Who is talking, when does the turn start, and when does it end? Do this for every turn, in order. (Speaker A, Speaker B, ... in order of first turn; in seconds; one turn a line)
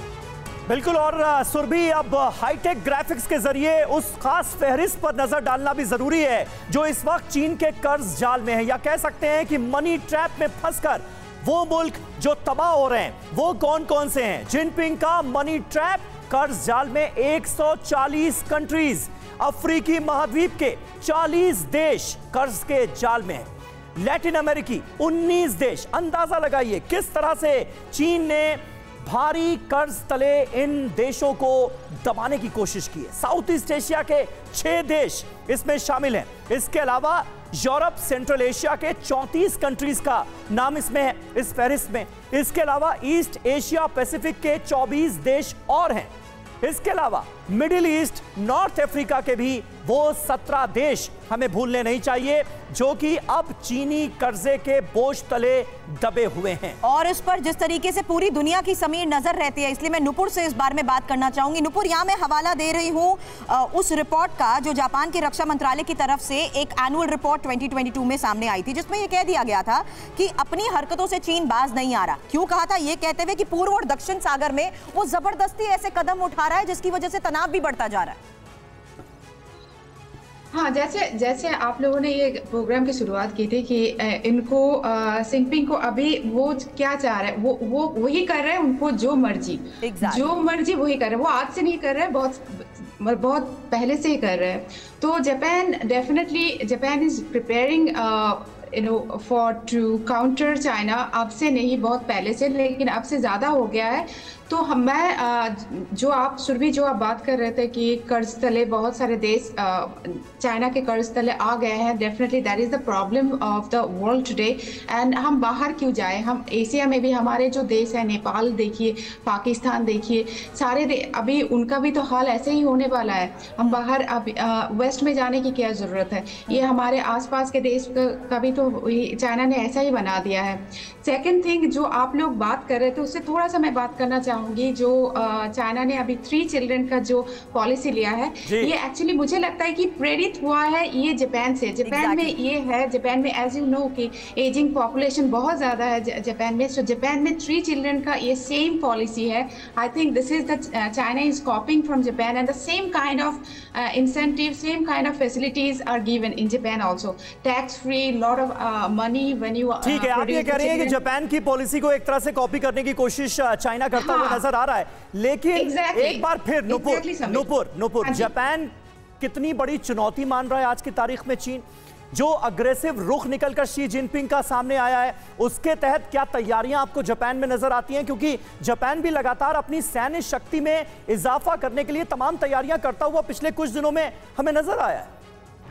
Speaker A: 0.7-23.4
Speaker A: 24.0-46.1
Speaker A: 46.6-56.8
Speaker B: 56.8-78.2
Speaker C: 80.5-161.0
Speaker B: 89.8-90.3
Speaker A: 138.4-138.7
Speaker B: 141.8-142.3
Speaker A: 159.8-168.7
Speaker C: 163.9-164.4
Speaker C: 165.5-167.5
Speaker C: 168.0-168.3
Speaker A: 169.2-185.1